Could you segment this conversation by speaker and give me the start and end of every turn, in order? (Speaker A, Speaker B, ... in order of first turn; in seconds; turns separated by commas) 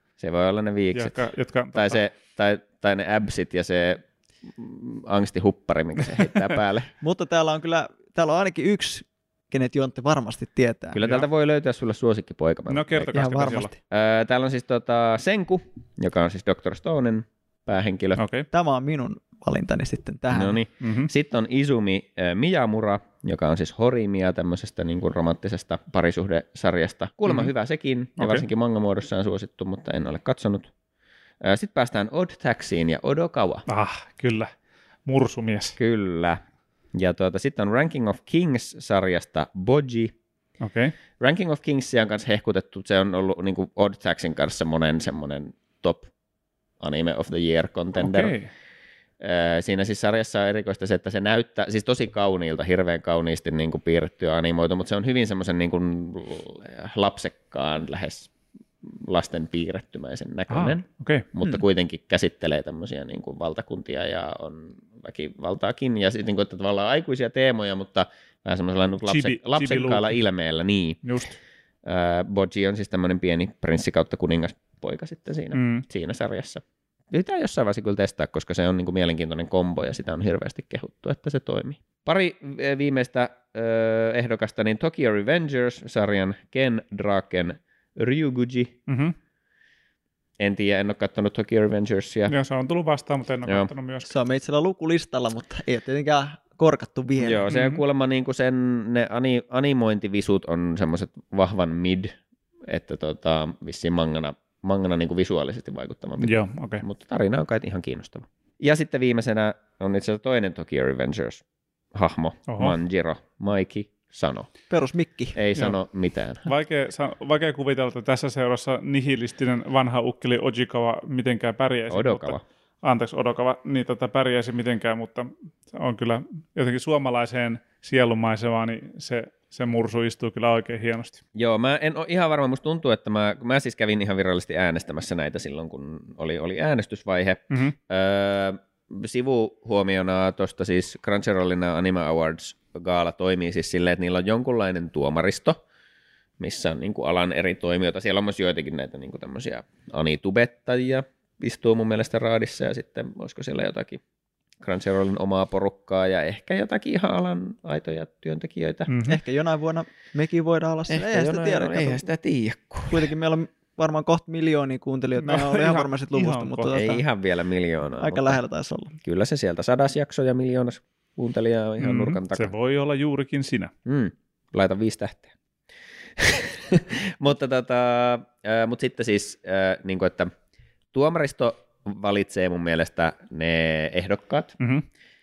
Speaker A: 0.2-6.9, Speaker B: 0.9-2.0, Speaker C: 7.0-11.0, Speaker A: 10.9-13.2, Speaker B: 12.7-13.7, Speaker C: 13.1-13.8, Speaker A: 13.9-18.2, Speaker B: 18.2-18.5, Speaker C: 18.5-20.6, Speaker A: 20.3-30.7, Speaker B: 20.8-21.1, Speaker B: 27.3-27.5, Speaker B: 28.2-28.4, Speaker A: 31.4-33.6, Speaker B: 33.7-34.5, Speaker B: 35.0-35.8, Speaker A: 35.8-36.4, Speaker A: 36.9-40.1, Speaker B: 40.6-40.9, Speaker A: 41.2-46.1, Speaker A: 46.8-48.3, Speaker B: 48.0-48.5, Speaker A: 49.2-58.3, Speaker A: 58.8-60.8, Speaker B: 60.5-61.3, Speaker A: 61.3-71.0, Speaker B: 69.0-70.2, Speaker B: 71.0-71.3, Speaker A: 71.8-88.8, Speaker B: 75.5-75.8, Speaker B: 88.9-89.2, Speaker A: 90.4-92.3, Speaker B: 92.3-94.1, Speaker C: 94.0-97.5, Speaker A: 97.2-102.2, Speaker B: 97.5-97.8, Speaker A: 102.7-111.4, Speaker B: 106.2-106.8, Speaker A: 111.9-114.5, Speaker B: 112.5-112.8, Speaker C: 114.7-115.3, Speaker A: 115.3-116.5, Speaker B: 116.4-131.2, Speaker A: 121.9-122.4, Speaker A: 131.3-145.6, Speaker A: 146.4-154.0, Speaker A: 154.6-158.9, Speaker B: 158.9-159.2, Speaker C: 159.1-162.1, Speaker A: 160.9-163.1, Speaker C: 162.9-167.0, Speaker B: 165.2-166.7, Speaker A: 166.7-168.4, Speaker C: 168.0-168.9, Speaker A: 169.0-172.5, Speaker B: 171.8-173.7, Speaker A: 173.8-175.3, Speaker A: 176.2-180.3, Speaker A: 180.9-184.6, Speaker B: 184.6-184.8